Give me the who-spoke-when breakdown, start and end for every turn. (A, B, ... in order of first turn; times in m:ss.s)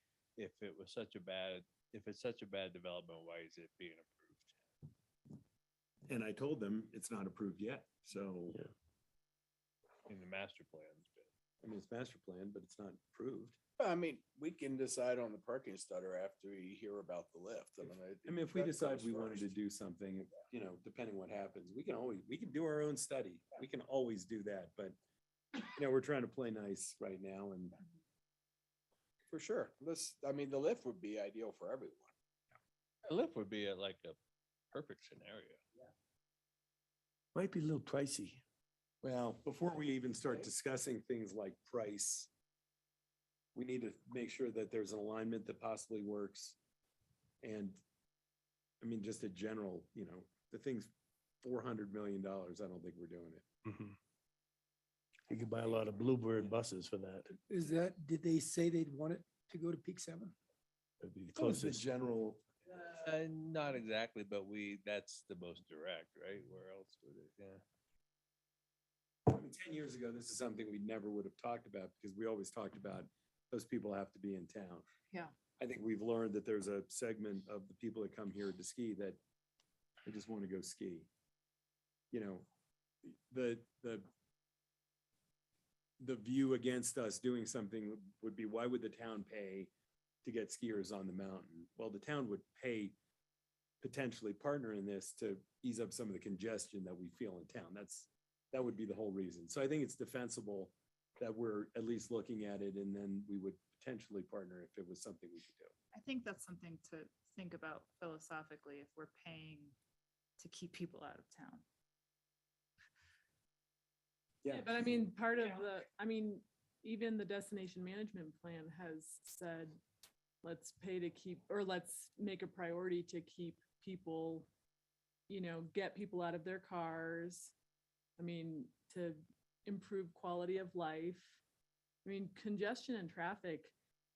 0:00.4-0:04.6 A
0:06.1-0:08.6 B
0:10.1-0:11.3 A
0:11.6-0:13.6 B
0:13.8-0:19.5 C
0:18.2-0:25.0 B
0:25.6-0:27.8 B
0:29.3-0:32.1 C
0:33.1-0:34.2 A
0:34.7-0:35.6 A
0:37.4-0:38.4 D
0:39.0-0:42.3 B
0:43.6-0:46.6 B
0:47.4-0:47.8 B
0:48.8-0:50.9 B
0:51.4-0:53.4 B
0:53.7-0:54.0 D
0:55.3-0:57.4 D
0:57.5-1:00.3 E
1:01.0-1:01.8 D
1:01.4-1:02.4 B
1:02.7-1:07.6 A
1:09.3-1:14.9 B
1:15.6-1:19.2 B
1:20.1-1:21.1 B
1:22.1-1:22.5 B
1:23.1-1:24.1 B
1:26.0-1:29.7 B
1:30.2-1:33.0 B
1:33.8-1:45.7 B
1:45.9-1:49.8 F
1:50.4-1:51.6 F
1:54.4-1:55.1 B
1:54.5-1:59.8 G
2:00.4-2:04.5 G
2:05.3-2:07.5 G
2:08.2-2:11.4 G
2:12.0-2:13.7 G